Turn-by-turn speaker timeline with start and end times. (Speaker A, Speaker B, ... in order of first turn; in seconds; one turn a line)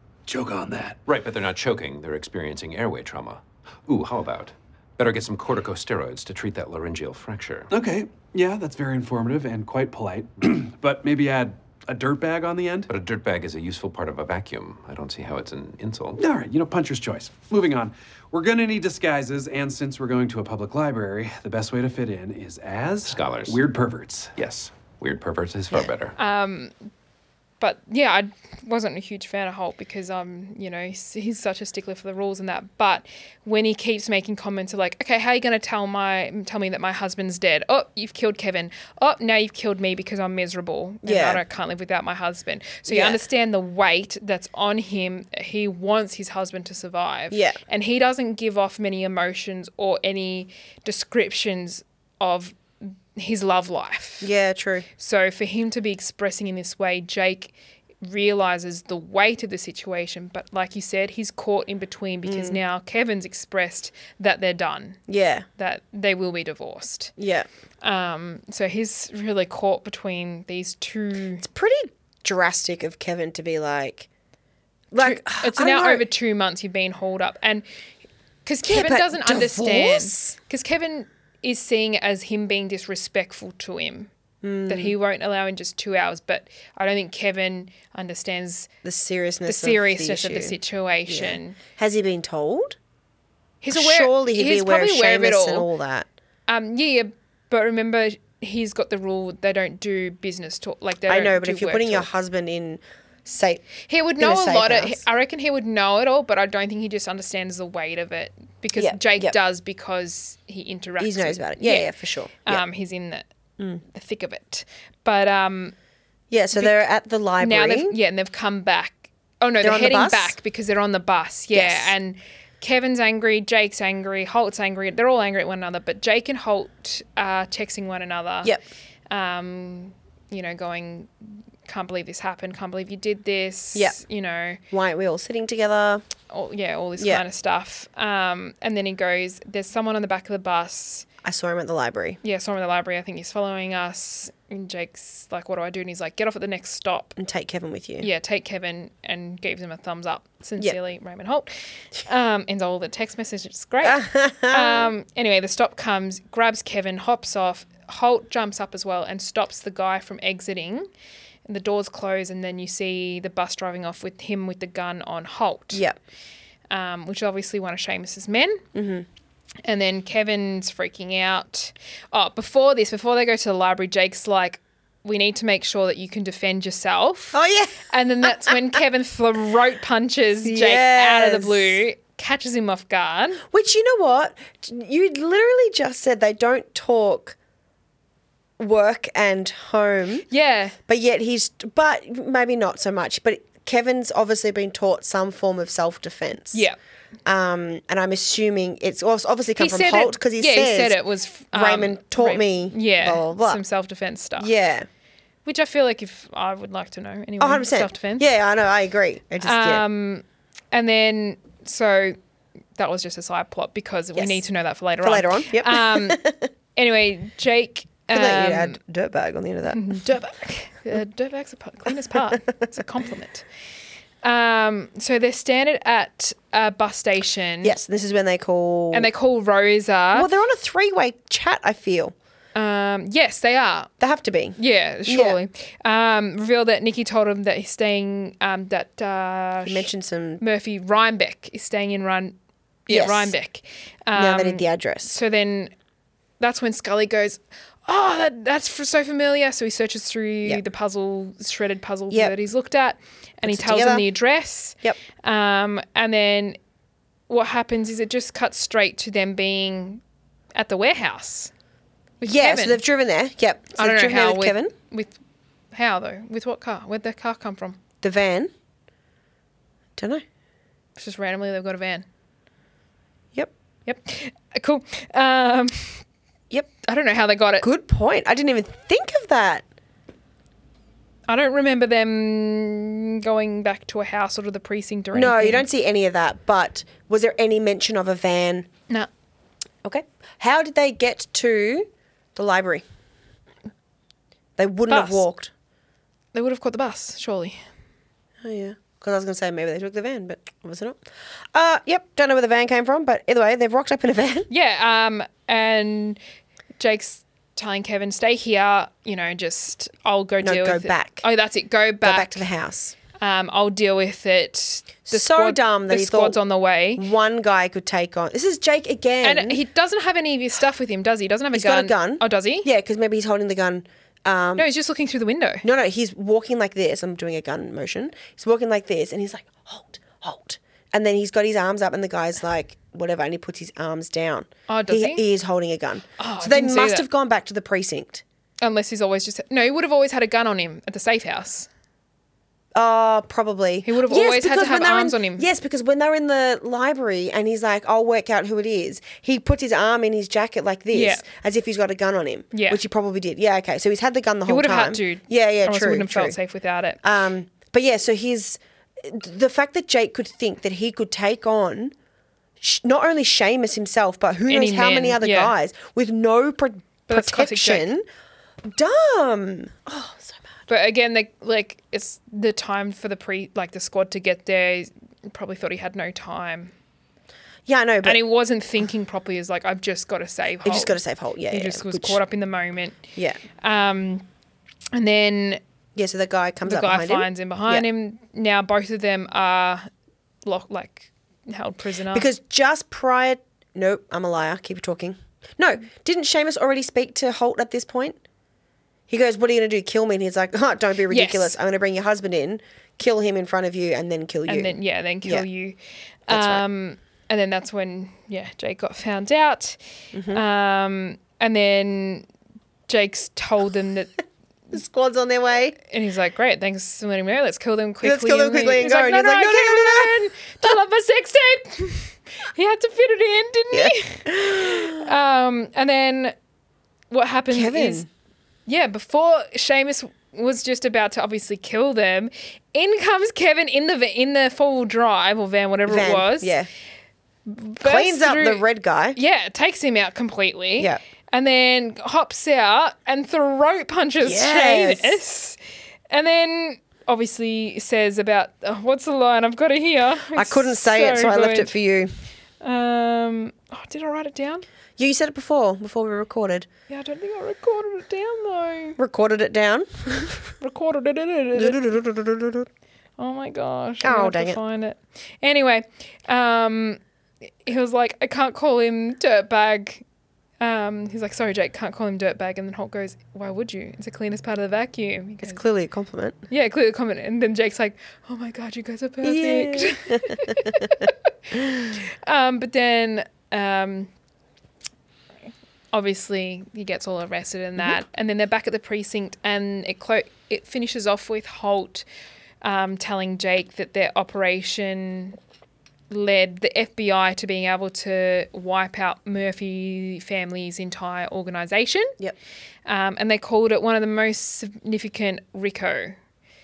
Speaker A: 0.3-1.0
Speaker B: 1.1-7.7
Speaker A: 7.7-12.9
Speaker B: 12.9-16.2
Speaker A: 16.2-24.6
Speaker B: 23.1-23.6
Speaker B: 24.4-26.1
Speaker C: 26.2-26.8
Speaker C: 27.6-54.3
Speaker D: 41.0-41.4
Speaker D: 42.9-43.2
Speaker D: 47.3-47.6
Speaker D: 54.2-54.9
Speaker C: 55.0-65.0
Speaker D: 62.2-62.6
Speaker D: 65.1-65.5
Speaker C: 65.6-67.1
Speaker D: 67.2-67.5
Speaker C: 67.8-71.4
Speaker D: 71.4-74.1
Speaker D: 74.9-76.0
Speaker C: 75.0-77.6
Speaker C: 78.4-84.1
Speaker D: 78.6-80.3
Speaker D: 84.4-85.0
Speaker C: 84.7-88.7
Speaker D: 88.8-92.8
Speaker C: 89.5-91.6
Speaker C: 93.6-95.7
Speaker D: 93.7-96.1
Speaker C: 96.5-102.1
Speaker D: 101.1-103.6
Speaker C: 103.9-111.9
Speaker D: 104.2-105.0
Speaker D: 108.8-109.4
Speaker D: 111.0-112.6
Speaker C: 112.4-113.2
Speaker C: 113.8-115.7
Speaker D: 116.3-118.0
Speaker C: 116.5-116.8
Speaker C: 117.4-128.5
Speaker D: 119.6-120.3
Speaker D: 121.5-121.9
Speaker C: 129.1-134.6
Speaker D: 133.7-134.0
Speaker D: 134.7-136.0
Speaker C: 136.3-141.1
Speaker D: 137.0-137.2
Speaker D: 141.2-142.2
Speaker C: 142.2-147.2
Speaker D: 147.2-148.1
Speaker C: 148.0-151.5
Speaker C: 152.0-160.9
Speaker D: 153.8-154.9
Speaker C: 161.4-165.8
Speaker D: 165.7-166.0
Speaker C: 166.7-168.6
Speaker D: 168.7-169.1
Speaker C: 169.6-183.4
Speaker D: 177.3-178.6
Speaker D: 180.4-181.8
Speaker D: 183.5-187.3
Speaker D: 188.6-190.3
Speaker C: 190.3-190.8
Speaker D: 190.9-196.7
Speaker D: 197.2-201.0
Speaker C: 199.6-204.5
Speaker D: 201.5-203.6
Speaker D: 204.4-204.9
Speaker C: 205.4-208.3
Speaker D: 207.4-209.8
Speaker C: 209.4-212.2
Speaker C: 212.8-216.2
Speaker D: 214.1-214.4
Speaker D: 215.0-216.5
Speaker C: 216.7-218.8
Speaker D: 218.1-220.1
Speaker C: 219.7-223.4
Speaker C: 224.2-227.7
Speaker D: 227.6-229.1
Speaker C: 228.9-230.3
Speaker D: 230.1-232.1
Speaker C: 232.5-233.9
Speaker D: 234.0-235.4
Speaker C: 234.6-239.9
Speaker D: 239.6-240.4
Speaker C: 240.4-242.3
Speaker C: 242.9-245.7
Speaker D: 242.9-243.3
Speaker D: 244.1-245.2
Speaker C: 246.4-256.6
Speaker D: 252.1-252.3
Speaker D: 253.4-254.1
Speaker C: 257.3-260.0
Speaker C: 260.5-261.5
Speaker C: 262.2-262.8
Speaker D: 262.2-264.7
Speaker C: 263.8-265.1
Speaker C: 265.7-267.8
Speaker D: 268.0-268.5
Speaker D: 270.0-270.2
Speaker C: 270.9-272.0
Speaker C: 273.9-276.0
Speaker C: 276.8-277.7
Speaker D: 277.6-279.6
Speaker C: 281.3-285.6
Speaker D: 285.1-288.7
Speaker D: 289.8-292.8
Speaker D: 294.6-295.5
Speaker C: 294.9-295.2
Speaker C: 296.3-297.6
Speaker D: 298.4-301.0
Speaker D: 301.5-304.5
Speaker C: 304.5-306.2
Speaker C: 306.8-312.4
Speaker D: 310.4-311.2
Speaker D: 312.0-312.9
Speaker C: 313.2-317.1
Speaker D: 315.1-316.4
Speaker D: 316.9-319.6
Speaker C: 319.2-322.7
Speaker D: 321.5-324.7
Speaker C: 324.6-325.6
Speaker D: 325.6-338.2
Speaker C: 334.7-335.2
Speaker C: 336.2-337.1
Speaker C: 338.6-341.7
Speaker D: 342.7-356.4
Speaker C: 343.8-345.5
Speaker C: 350.9-351.2
Speaker C: 352.5-352.8
Speaker C: 354.5-357.0
Speaker D: 357.0-361.9
Speaker D: 362.6-368.0
Speaker C: 364.5-365.5
Speaker C: 367.1-367.9
Speaker D: 368.6-370.4
Speaker C: 370.7-376.7
Speaker D: 377.6-378.2
Speaker C: 378.0-383.0
Speaker D: 380.6-382.2
Speaker D: 383.1-383.4
Speaker C: 383.6-384.2
Speaker C: 384.9-385.6
Speaker D: 385.9-387.9
Speaker C: 386.6-389.9
Speaker C: 390.4-392.3
Speaker D: 392.1-398.2
Speaker D: 399.1-405.4
Speaker C: 401.1-401.6
Speaker C: 404.5-405.8
Speaker D: 406.3-406.6
Speaker C: 406.3-409.8
Speaker D: 410.1-410.4
Speaker C: 410.3-412.2
Speaker C: 412.9-414.2
Speaker D: 414.7-415.8
Speaker C: 415.9-426.3
Speaker D: 418.0-420.7
Speaker D: 423.7-425.0
Speaker C: 427.1-428.0
Speaker D: 427.5-428.1
Speaker C: 428.7-436.5
Speaker D: 435.9-436.7
Speaker C: 437.4-438.6
Speaker D: 437.8-439.2
Speaker C: 439.1-445.6
Speaker D: 444.2-445.2
Speaker C: 446.1-451.7
Speaker D: 450.3-452.1
Speaker C: 452.6-454.6
Speaker D: 455.0-456.7
Speaker C: 456.9-459.0
Speaker D: 459.0-460.5
Speaker C: 460.6-461.8
Speaker D: 461.5-462.7
Speaker C: 463.2-467.0
Speaker D: 464.0-464.6
Speaker C: 467.6-470.0
Speaker C: 470.6-475.6
Speaker D: 475.4-476.4
Speaker C: 476.5-481.1
Speaker D: 479.2-480.9
Speaker C: 481.7-484.1
Speaker C: 485.9-492.0
Speaker C: 492.6-495.4
Speaker C: 496.1-502.1
Speaker C: 502.9-506.1